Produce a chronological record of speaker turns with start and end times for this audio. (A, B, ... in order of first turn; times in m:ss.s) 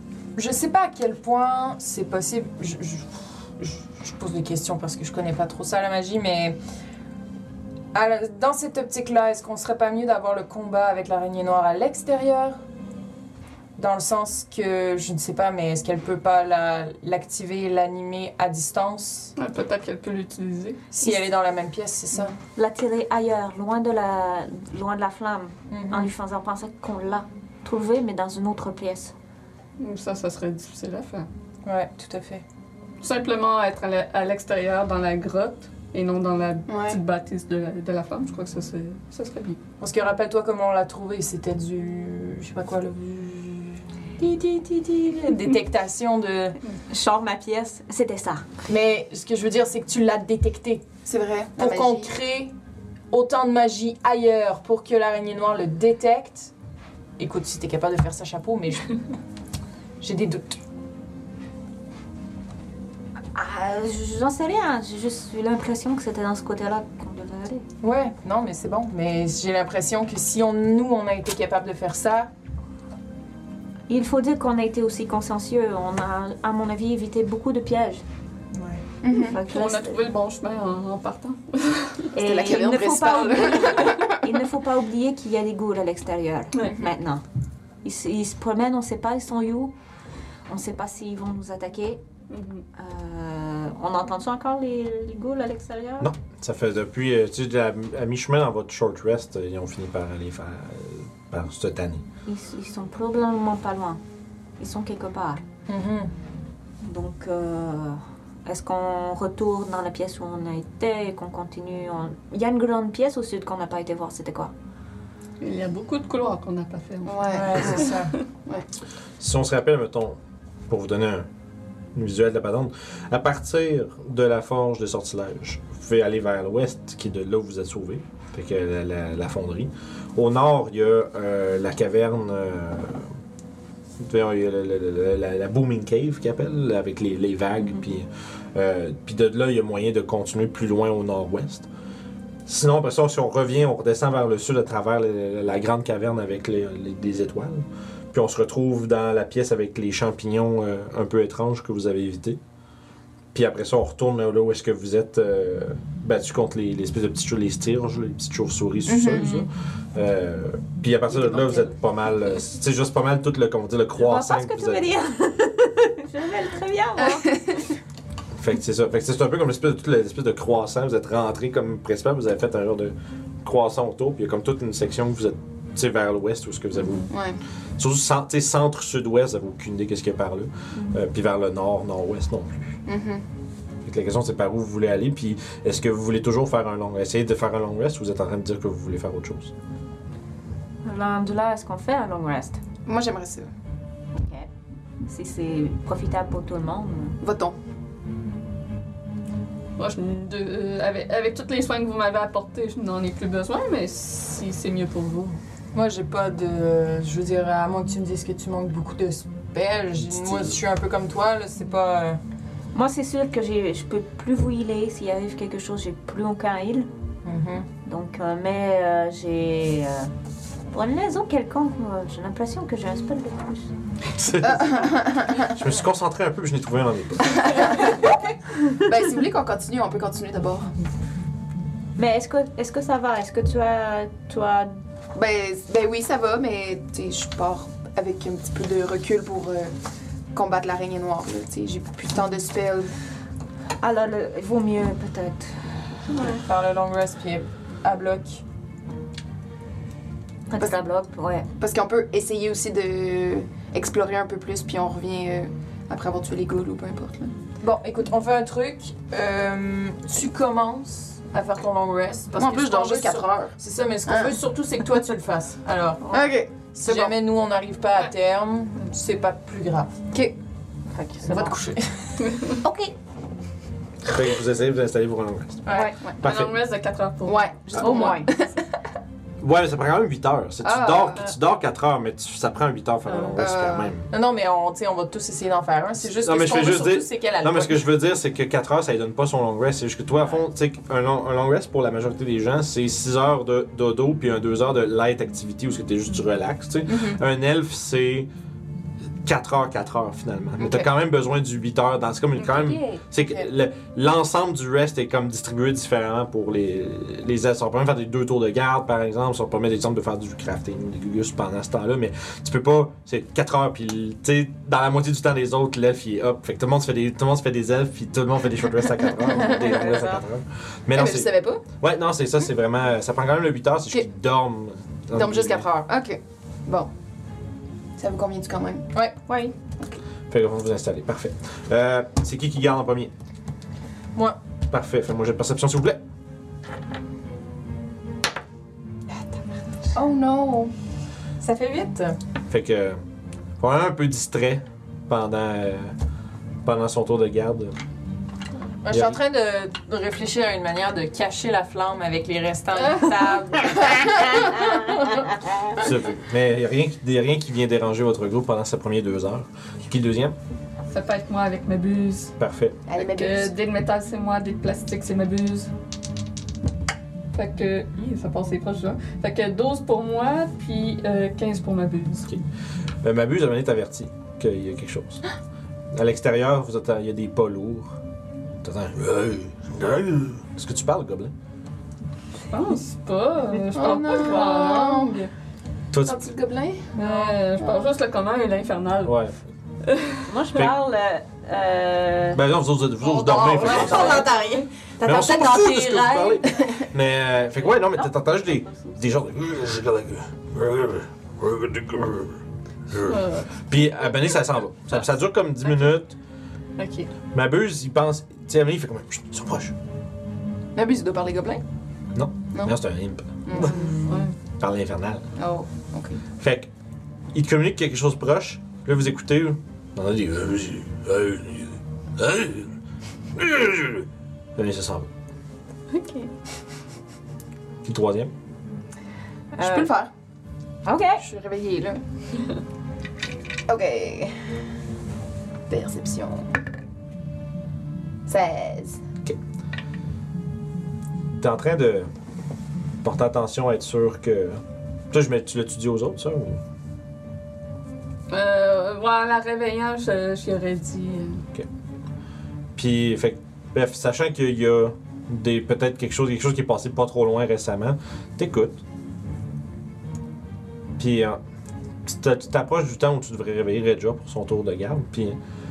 0:00.4-0:06.6 A
0:07.9-0:12.6 A
0:13.8-0:19.3 A
0:19.4-0:20.8 B
0:20.9-0:22.3 A
0:22.6-0:29.1 C
0:25.7-0:26.1 A
0:29.8-0:31.3 B
0:31.6-0:32.4 A
0:33.0-0:39.6 B
0:36.7-0:37.0 D
0:39.8-0:46.6 A
0:46.9-0:48.4 C
0:48.6-0:50.9 A
0:51.0-0:52.1 D
0:51.6-0:52.5 A
0:53.1-0:56.5 A
0:57.2-0:58.9 A
1:00.0-1:00.6 A
1:03.3-1:07.6 C
1:07.8-1:12.3 A
1:13.9-1:18.0 C
1:18.5-1:18.8 A
1:19.0-1:19.4 D
1:19.1-1:20.0 C
1:19.4-1:22.1 B
1:22.1-1:27.2 C
1:22.2-1:24.2 D
1:26.5-1:26.8 B
1:27.8-1:29.7 C
1:30.5-1:32.0 C
1:32.3-1:32.6 B
1:32.8-1:36.1 C
1:36.0-1:42.0 E
1:42.2-1:44.0 C
1:44.6-1:45.4 C
1:45.7-1:46.1 A
1:46.8-1:54.5 C
1:55.4-1:58.2 B
1:57.0-1:57.9 D
1:57.3-1:58.1 A
1:59.2-2:00.2 E
2:00.7-2:01.3 E
2:01.9-2:13.0 E
2:14.0-2:21.7 E
2:22.4-2:32.4 E
2:33.3-2:44.8 E
2:38.8-2:39.4 D
2:44.0-2:47.4 C
2:47.0-2:47.6 D
2:48.4-2:57.1 E
2:57.1-2:57.4 D
2:57.8-3:02.8 E
3:02.8-3:03.2 D
3:03.8-3:09.5 E
3:10.8-3:12.6 C
3:12.8-3:13.5 D
3:14.1-3:14.5 C
3:15.0-3:17.2 C
3:17.2-3:17.6 D
3:19.8-3:25.4 B
3:25.7-3:32.2 A
3:32.7-3:36.9 C
3:37.2-3:37.7 A
3:37.8-3:40.1 C
3:40.7-3:43.7 C
3:44.1-3:47.6 E
3:44.4-3:45.5 D
3:47.3-3:48.0 D
3:48.7-3:50.7 D
3:52.0-3:54.8 C
3:55.1-3:59.7 D
4:00.3-4:02.9 D
4:03.8-4:05.7 C
4:06.1-4:06.4 B
4:06.2-4:08.4 A
4:10.5-4:11.5 C
4:11.6-4:17.3 D
4:17.6-4:26.2 A
4:22.4-4:23.5 D
4:24.0-4:24.3 D
4:26.1-4:27.2 D
4:26.7-4:30.0 A
4:30.9-4:31.6 C
4:31.2-4:32.1 A
4:32.2-4:32.6 B
4:32.6-4:32.9 C
4:34.0-4:35.6 E
4:35.6-4:35.9 A
4:35.7-4:36.0 C
4:36.2-4:36.6 E
4:36.2-4:38.1 B
4:37.2-4:38.6 D
4:37.8-4:38.3 C
4:39.4-4:44.1 E
4:40.6-4:41.3 D
4:43.4-4:43.9 D
4:44.1-4:47.9 A
4:46.1-4:58.3 E
4:56.9-4:57.2 D
4:59.2-5:25.6 E
5:00.6-5:00.9 D
5:02.4-5:03.0 C
5:19.5-5:20.1 C
5:20.9-5:21.6 D
5:25.1-5:26.9 D
5:28.0-5:28.9 D
5:28.9-5:29.2 A
5:29.3-5:29.5 C
5:30.3-5:33.1 E
5:34.7-5:36.0 E
5:39.9-5:40.7 D
5:41.4-5:42.2 A
5:42.5-5:43.0 E
5:43.6-5:45.9 E
5:46.6-5:47.7 E
5:48.8-5:55.2 A
5:48.9-5:49.2 E
5:55.7-6:00.3 E
6:00.9-6:02.3 B
6:02.4-6:02.8 E
6:02.9-6:03.6 D
6:02.9-6:05.7 B
6:07.3-6:12.3 B
6:13.0-6:15.2 E
6:15.9-6:17.9 E
6:18.6-6:21.3 E
6:22.5-6:25.3 B
6:23.7-6:25.2 D
6:25.9-6:26.2 E
6:26.0-6:27.9 D
6:26.9-6:29.2 B
6:29.0-6:29.4 E
6:29.8-6:30.3 B
6:30.3-6:32.4 C
6:32.3-6:34.3 E
6:33.2-6:34.7 A
6:33.5-6:36.8 C
6:33.6-6:34.3 D
6:35.0-6:46.2 E
6:37.6-6:39.0 C
6:43.0-6:43.5 B
6:46.8-6:47.1 B
6:47.3-6:49.7 E
6:50.7-6:51.6 D
6:52.1-6:53.8 E
6:53.4-6:54.0 D
6:53.8-6:54.4 B
6:54.6-6:55.3 E
6:55.4-6:56.2 D
6:56.4-6:56.7 E
6:57.3-7:02.7 E
7:03.4-7:05.1 E
7:05.9-7:06.3 C
7:07.8-7:08.3 E
7:09.6-7:09.9 C
7:09.6-7:10.1 D
7:10.8-7:11.2 C
7:11.2-7:12.0 D
7:13.7-7:14.3 D
7:15.7-7:16.5 D
7:18.2-7:19.0 D
7:21.4-7:22.1 E
7:23.0-7:24.6 E
7:25.1-7:26.6 E
7:28.3-7:31.4 B
7:32.8-7:38.8 E
7:41.0-7:41.4 E
7:42.0-7:45.4 E